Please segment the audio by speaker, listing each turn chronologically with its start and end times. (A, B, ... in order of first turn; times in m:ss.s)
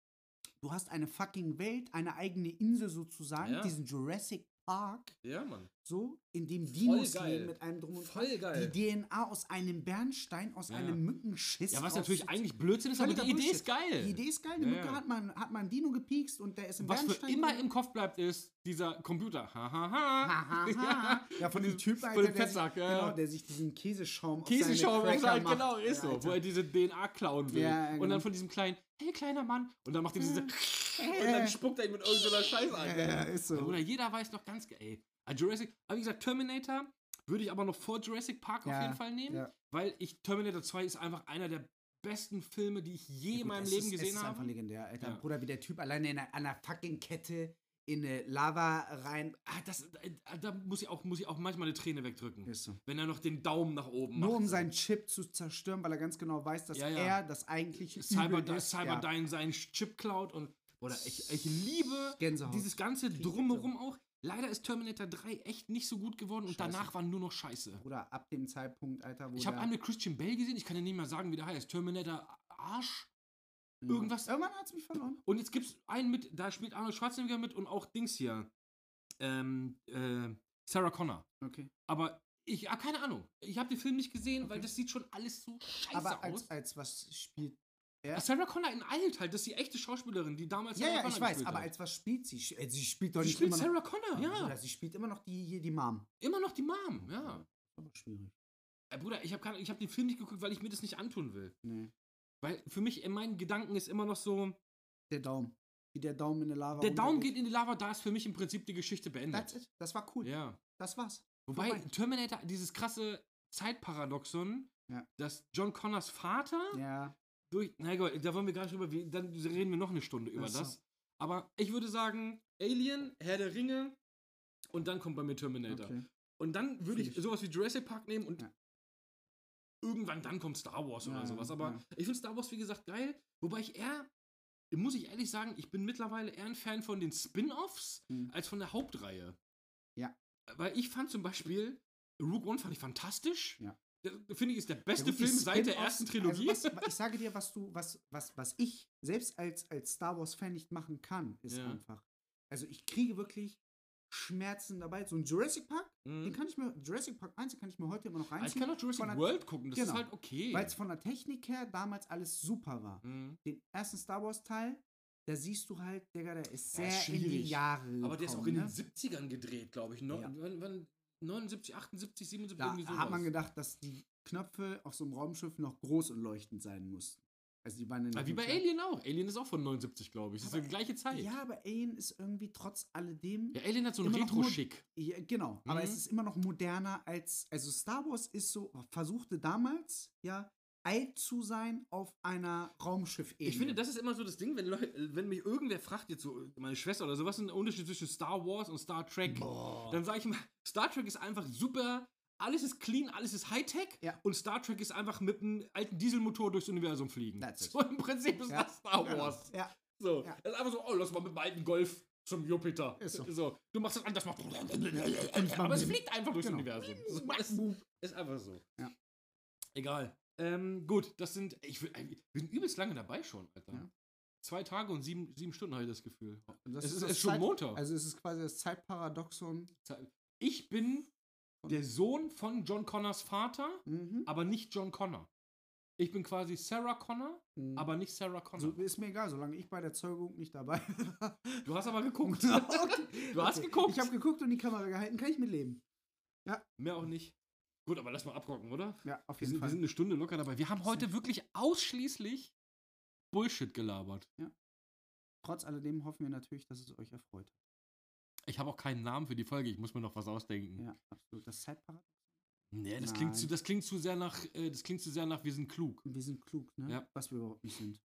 0:00.6-0:05.2 A
0:03.4-0:03.8 B
0:05.2-0:05.7 B
0:05.8-0:17.6 A
0:06.8-0:08.8 B
0:10.7-0:11.0 B
0:11.7-0:15.0 B
0:16.8-0:23.2 B
0:20.2-0:26.4 A
0:24.4-0:45.2 B
0:27.5-0:28.2 A
0:30.2-0:31.6 A
0:32.1-0:33.8 A
0:38.6-0:39.5 A
0:43.3-0:49.4 A
0:49.4-0:54.7 B
0:52.4-0:52.8 A
0:54.1-0:59.1 A
0:56.7-0:57.2 B
0:57.9-1:07.8 B
1:02.2-1:03.7 A
1:06.5-1:06.9 A
1:07.8-1:09.7 A
1:09.3-1:13.1 B
1:13.8-1:15.2 A
1:13.9-1:14.3 B
1:15.2-1:18.5 B
1:19.2-1:21.3 B
1:21.4-1:21.7 A
1:21.9-1:26.5 B
1:24.4-1:24.7 A
1:25.9-1:28.2 A
1:28.1-1:31.7 B
1:30.7-1:36.1 A
1:33.2-1:34.5 B
1:36.2-1:37.4 B
1:37.0-1:38.3 A
1:38.9-1:41.5 B
1:41.6-1:41.9 A
1:42.4-1:44.6 B
1:45.1-1:47.3 A
1:46.8-1:49.6 B
1:49.3-1:51.9 A
1:50.2-1:50.6 B
1:51.5-1:56.8 B
1:56.7-1:57.1 A
1:57.5-2:04.0 B
2:00.4-2:00.8 A
2:04.7-2:08.4 B
2:05.7-2:06.0 A
2:06.9-2:07.2 A
2:09.8-2:14.1 B
2:11.0-2:11.8 A
2:14.7-2:19.4 B
2:20.5-2:26.9 B
2:25.0-2:48.7 A
2:31.5-2:31.8 B
2:36.0-2:36.4 B
2:38.4-2:40.8 B
2:43.0-2:43.4 B
2:46.7-2:53.3 B
2:52.6-2:58.6 A
2:58.1-3:01.3 B
3:00.4-3:13.8 A
3:03.5-3:04.8 B
3:05.6-3:06.0 B
3:13.4-3:38.6 B
3:19.3-3:20.0 A
3:27.4-3:27.8 A
3:28.5-3:30.4 A
3:33.0-3:33.3 A
3:35.3-3:37.8 A
3:39.7-3:43.9 B
3:44.4-3:47.8 B
3:46.6-3:49.7 A
3:49.8-3:51.1 B
3:51.7-3:55.3 B
3:53.8-3:54.3 A
3:56.0-3:58.8 B
3:57.6-3:57.9 A
3:58.6-4:01.7 A
4:01.6-4:04.1 B
4:02.2-4:05.8 A
4:06.8-4:07.3 B
4:07.8-4:12.5 B
4:09.0-4:09.8 A
4:13.3-4:14.3 B
4:15.4-4:17.6 A
4:18.5-4:20.8 B
4:20.8-4:22.1 A
4:22.7-4:26.0 B
4:23.0-4:23.5 A
4:26.0-4:28.0 A